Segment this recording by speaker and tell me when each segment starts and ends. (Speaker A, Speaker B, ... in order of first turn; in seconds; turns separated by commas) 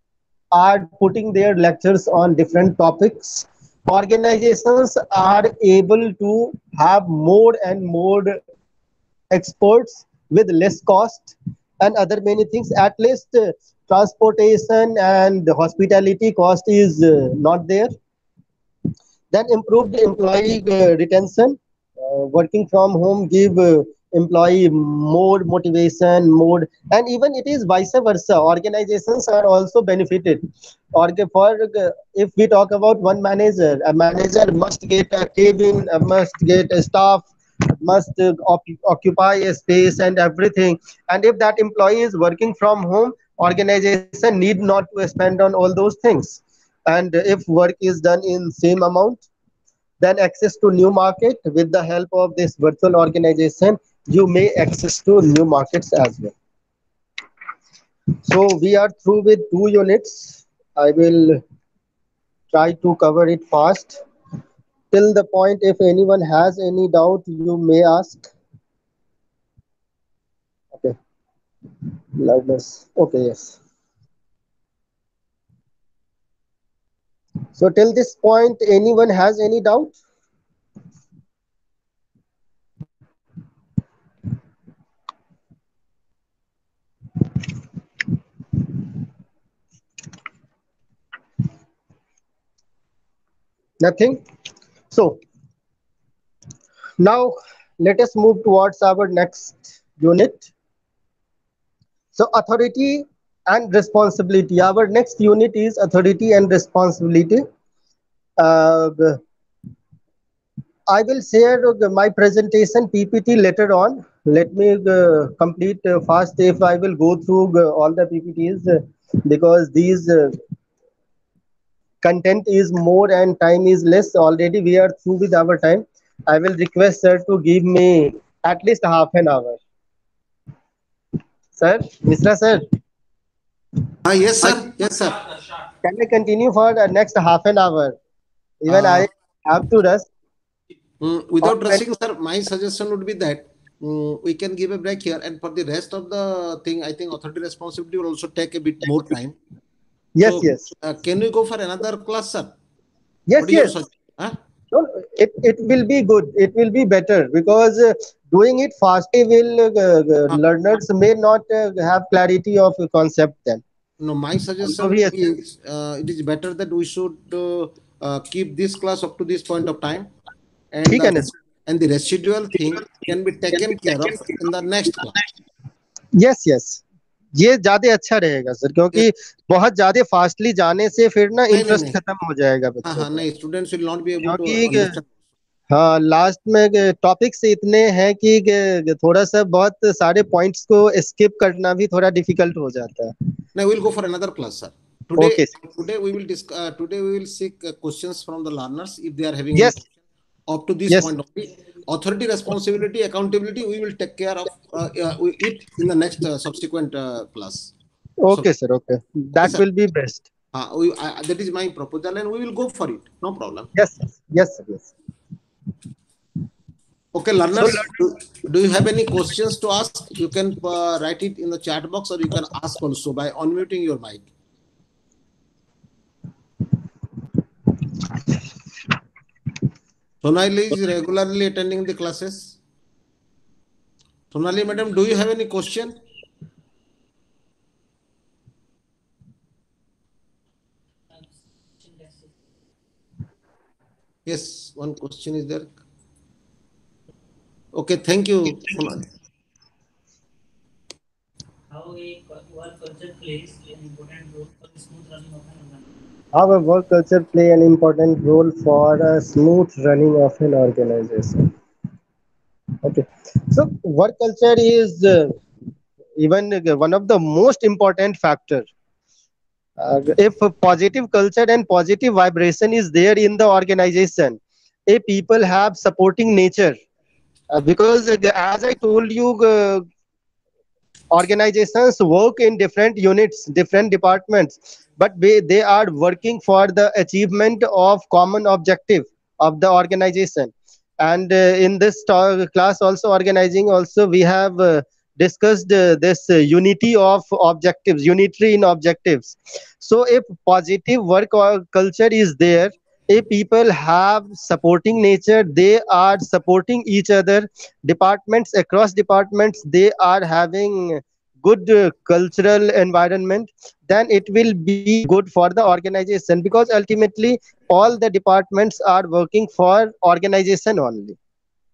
Speaker A: 0.5-8.4, Speaker A: 9.3-17.9, Speaker A: 19.3-49.2, Speaker A: 50.0-56.3, Speaker A: 58.1-61.4, Speaker A: 62.5-64.0, Speaker A: 64.9-68.3, Speaker A: 72.1-73.6, Speaker A: 77.6-80.0, Speaker A: 93.8-94.2, Speaker A: 94.9-95.2, Speaker A: 97.0-100.5, Speaker A: 102.1-107.4, Speaker A: 108.4-109.2, Speaker A: 110.9-120.4, Speaker A: 122.0-129.6, Speaker A: 131.6-132.7, Speaker B: 134.0-135.3, Speaker A: 135.8-138.0, Speaker A: 138.6-140.1, Speaker B: 138.7-139.1, Speaker B: 141.0-149.3, Speaker A: 141.4-141.8, Speaker A: 150.2-150.7, Speaker B: 150.2-152.6, Speaker A: 153.3-153.7, Speaker B: 153.4-154.4, Speaker A: 154.7-163.6, Speaker B: 164.0-170.1, Speaker A: 164.6-165.4, Speaker B: 170.7-175.2, Speaker A: 170.9-171.3, Speaker A: 176.1-176.8, Speaker A: 177.3-183.2, Speaker B: 181.5-182.0, Speaker B: 182.8-185.1, Speaker A: 184.2-184.9, Speaker A: 185.7-193.1, Speaker B: 193.6-199.9, Speaker A: 195.2-195.5, Speaker B: 200.5-207.7, Speaker A: 208.2-210.3, Speaker B: 210.5-213.7, Speaker A: 213.7-214.9, Speaker B: 217.1-224.3, Speaker A: 217.6-217.9, Speaker B: 230.2-232.6, Speaker B: 234.3-235.9, Speaker C: 241.1-242.3, Speaker B: 244.3-245.8, Speaker B: 247.7-249.0, Speaker C: 251.7-255.8, Speaker A: 256.3-261.5, Speaker A: 262.8-265.4, Speaker A: 266.2-268.7, Speaker A: 269.8-276.8, Speaker A: 277.5-279.9, Speaker A: 281.1-321.1